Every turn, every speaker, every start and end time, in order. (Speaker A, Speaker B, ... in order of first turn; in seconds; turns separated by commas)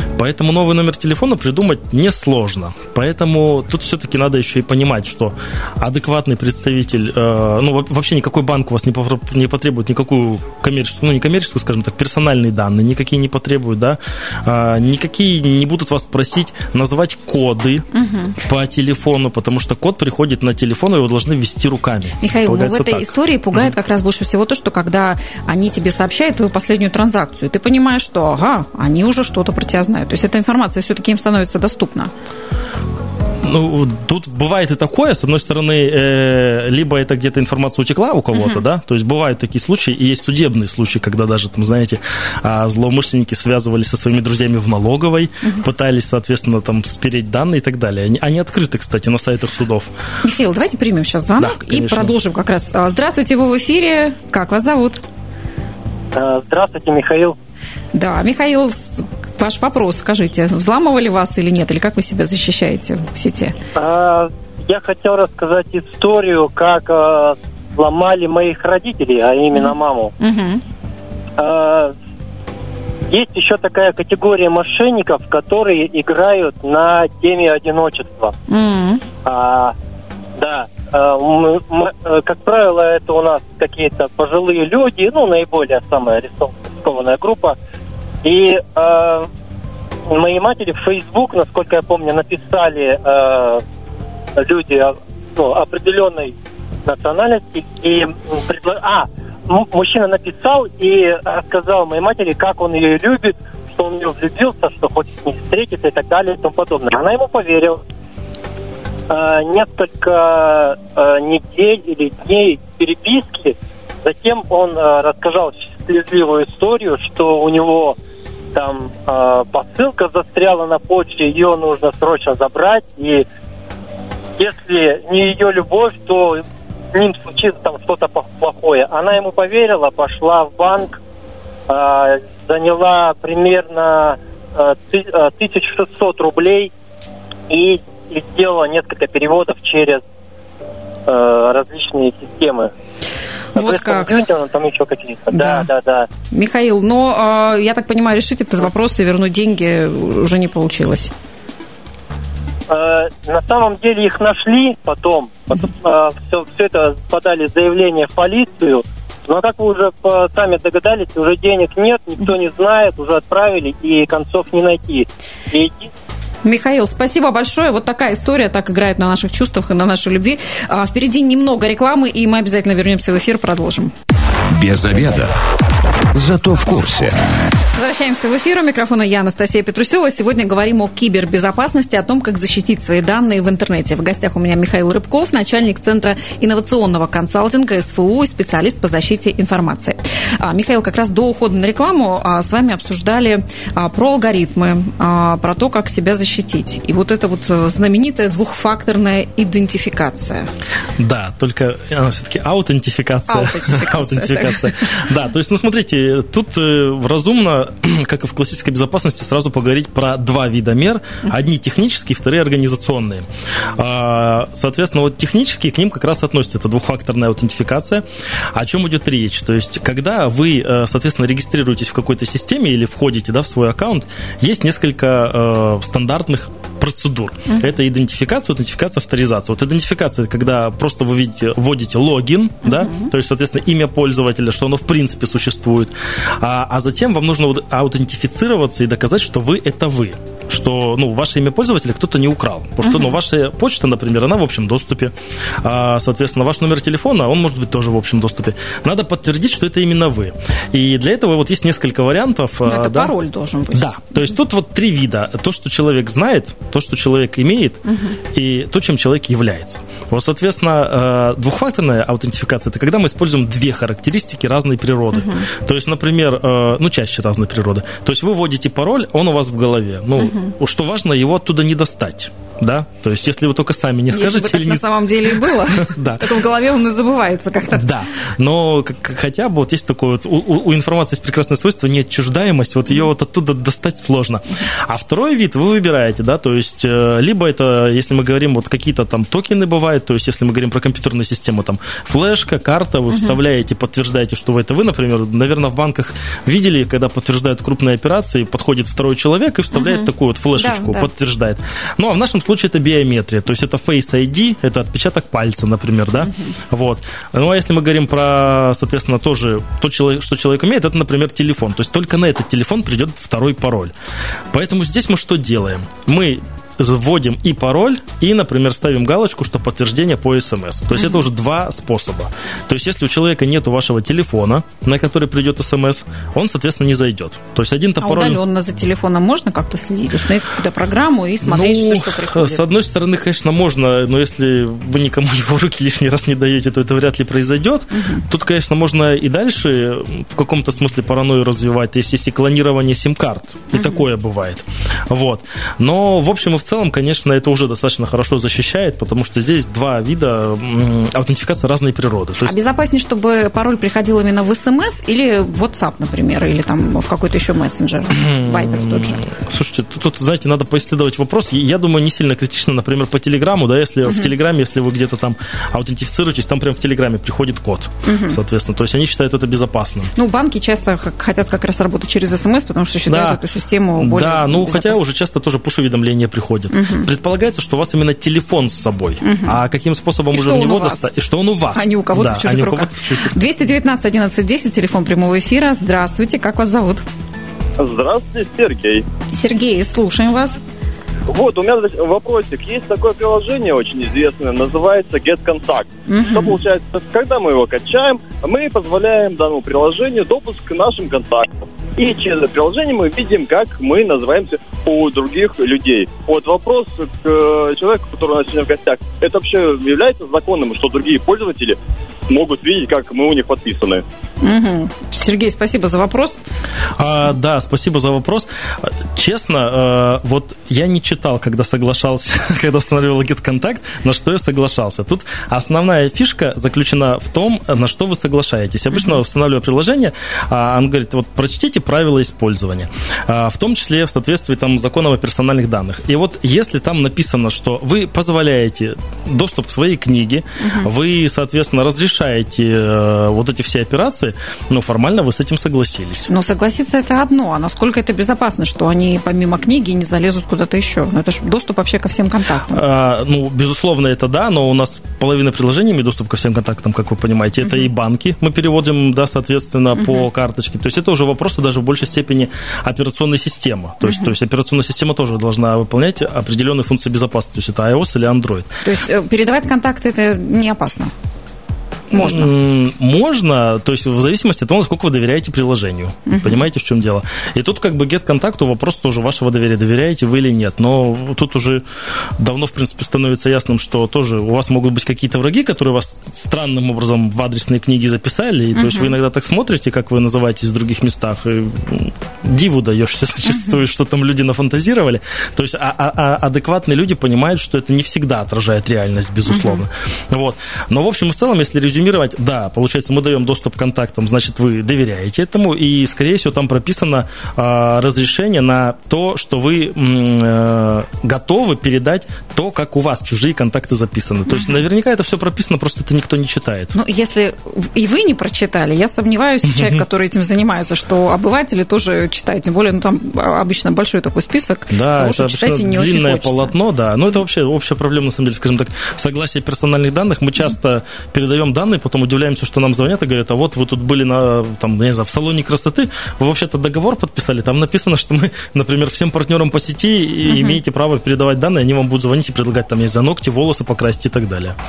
Speaker A: 0.1-17.9, Speaker B: 17.9-18.4, Speaker A: 18.4-23.1, Speaker B: 22.2-32.1, Speaker A: 33.4-49.9, Speaker B: 50.2-55.0, Speaker A: 51.4-52.1, Speaker C: 56.1-57.4, Speaker B: 57.9-63.5, Speaker C: 63.7-70.1, Speaker B: 69.5-70.6, Speaker C: 71.4-71.9, Speaker C: 73.1-78.3, Speaker B: 78.5-79.0, Speaker C: 79.2-79.7, Speaker C: 80.4-87.5, Speaker C: 88.2-89.3, Speaker C: 90.1-93.6, Speaker C: 94.3-96.3, Speaker C: 96.8-107.8, Speaker C: 109.1-118.0, Speaker C: 118.5-123.2, Speaker C: 124.4-131.0, Speaker C: 131.7-136.7, Speaker C: 137.5-140.0, Speaker C: 141.1-142.7, Speaker B: 143.6-144.1, Speaker C: 143.6-146.1, Speaker B: 145.3-145.7, Speaker B: 146.3-151.1, Speaker C: 152.7-165.9, Speaker B: 166.4-173.9, Speaker D: 174.5-175.3, Speaker D: 176.1-177.3, Speaker B: 177.7-200.5, Speaker A: 201.0-253.1, Speaker B: 203.3-205.0, Speaker B: 232.6-233.1, Speaker B: 242.8-243.2, Speaker B: 252.6-254.3, Speaker A: 253.7-276.3, Speaker B: 257.9-258.2, Speaker B: 265.1-265.5, Speaker B: 270.2-270.5, Speaker B: 274.1-278.0, Speaker A: 277.7-313.9, Speaker B: 293.1-293.4, Speaker B: 299.7-301.1, Speaker A: 314.5-328.4, Speaker B: 328.0-332.7, Speaker A: 331.4-352.6, Speaker B: 337.9-338.2, Speaker B: 343.7-344.0, Speaker B: 352.4-359.2, Speaker A: 358.1-370.1, Speaker B: 368.0-368.4, Speaker B: 370.1-375.0, Speaker A: 373.1-373.4, Speaker A: 374.0-383.3, Speaker B: 376.7-377.1, Speaker B: 379.2-379.6, Speaker B: 380.3-381.1, Speaker B: 381.7-387.0, Speaker E: 387.8-389.0, Speaker B: 389.3-390.6, Speaker E: 391.3-411.8, Speaker B: 396.1-396.6, Speaker E: 412.3-414.0, Speaker B: 414.4-416.4, Speaker A: 417.0-446.3, Speaker B: 440.6-440.9, Speaker B: 446.3-452.8, Speaker A: 452.7-468.7, Speaker B: 468.8-471.1, Speaker B: 472.1-472.5, Speaker A: 472.1-481.8, Speaker B: 476.2-476.6, Speaker A: 482.4-516.9, Speaker B: 488.7-489.1, Speaker B: 499.5-499.8, Speaker B: 516.9-526.7, Speaker A: 519.7-520.0, Speaker A: 524.9-544.8, Speaker B: 540.5-540.8